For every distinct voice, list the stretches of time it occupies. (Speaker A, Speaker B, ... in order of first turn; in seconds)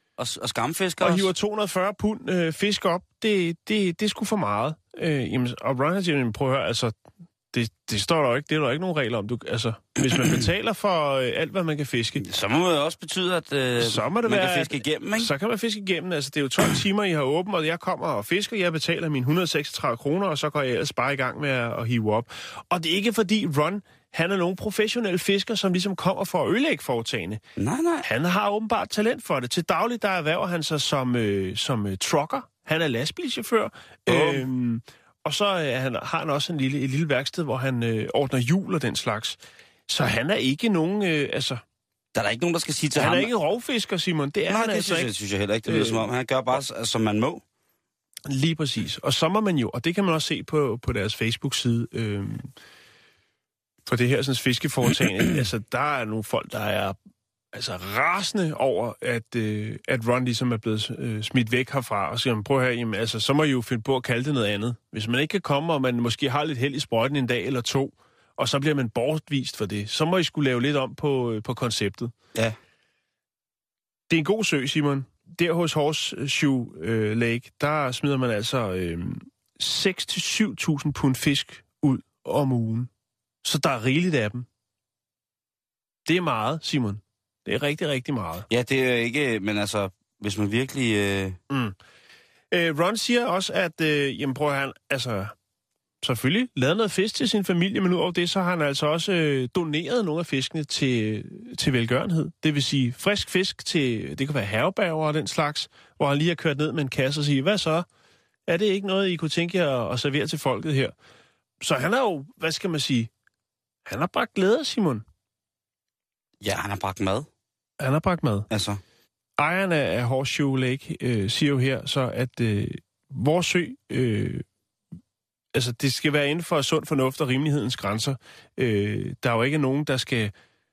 Speaker A: 0.2-1.3, 10.1-10.4, 12.2-15.3, 27.6-28.1, 34.1-34.5, 42.1-43.3, 44.5-47.4, 88.5-91.4, 116.4-117.3, 118.5-118.8
Speaker B: 1.0-7.0, 7.5-12.2, 13.8-27.4, 28.0-41.6, 43.0-45.1, 45.7-46.1, 48.3-52.5, 53.9-57.0, 57.5-72.1, 74.1-82.9, 83.4-84.5, 86.1-88.5, 91.5-91.8, 92.5-95.3, 96.0-107.9, 108.5-110.9, 111.6-113.1, 113.9-115.0, 117.8-118.5, 119.4-124.5, 125.5-130.3